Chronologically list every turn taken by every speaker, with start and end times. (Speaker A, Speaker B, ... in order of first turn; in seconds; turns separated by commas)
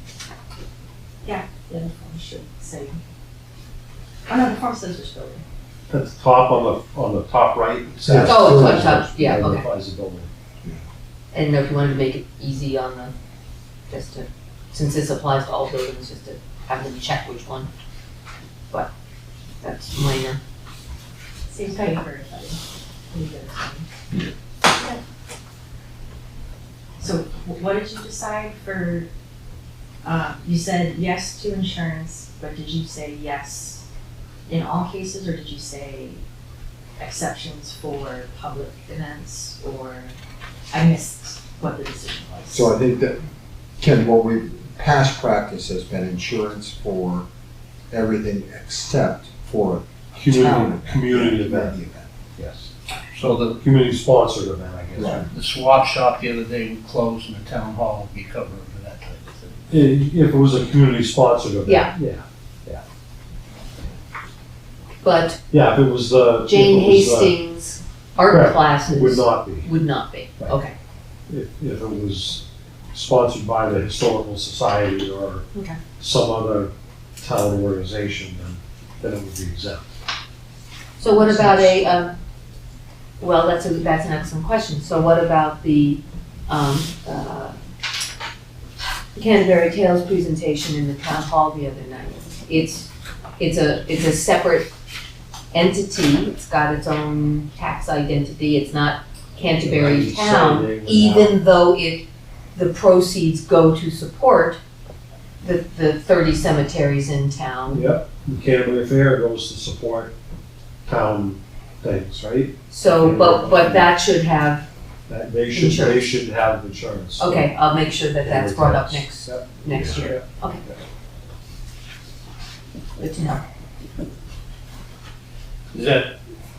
Speaker A: 1.2-3.0, Speaker A: 4.3-5.4, Speaker B: 5.9-10.3, Speaker C: 8.1-8.9, Speaker D: 8.2-9.6, Speaker D: 11.3-13.1, Speaker D: 13.9-17.7, Speaker D: 19.6-20.4, Speaker A: 21.5-23.9, Speaker D: 21.7-22.0, Speaker A: 27.0-29.1, Speaker A: 30.0-33.8, Speaker A: 34.5-36.2, Speaker A: 37.0-40.1, Speaker A: 40.7-42.7, Speaker C: 42.5-43.2, Speaker C: 43.8-47.3, Speaker C: 47.9-52.1, Speaker B: 50.1-51.8, Speaker B: 52.4-52.7, Speaker E: 53.1-53.6, Speaker B: 53.5-55.3, Speaker C: 55.0-55.3, Speaker E: 55.3-59.8, Speaker B: 59.7-62.8, Speaker D: 61.6-61.9, Speaker D: 65.0-65.4, Speaker B: 65.5-67.4, Speaker D: 66.5-70.7, Speaker B: 68.3-69.7, Speaker B: 71.3-79.9, Speaker D: 81.0-82.2, Speaker B: 81.3-81.7, Speaker D: 83.2-87.6, Speaker D: 89.2-94.7, Speaker D: 95.5-104.6, Speaker B: 99.6-101.4, Speaker D: 105.4-107.8, Speaker B: 107.7-110.1, Speaker B: 110.9-113.9, Speaker D: 112.7-114.7, Speaker B: 115.1-117.5, Speaker D: 115.5-116.0, Speaker D: 117.2-120.6, Speaker B: 118.2-120.8, Speaker D: 123.0-123.4, Speaker E: 125.7-126.2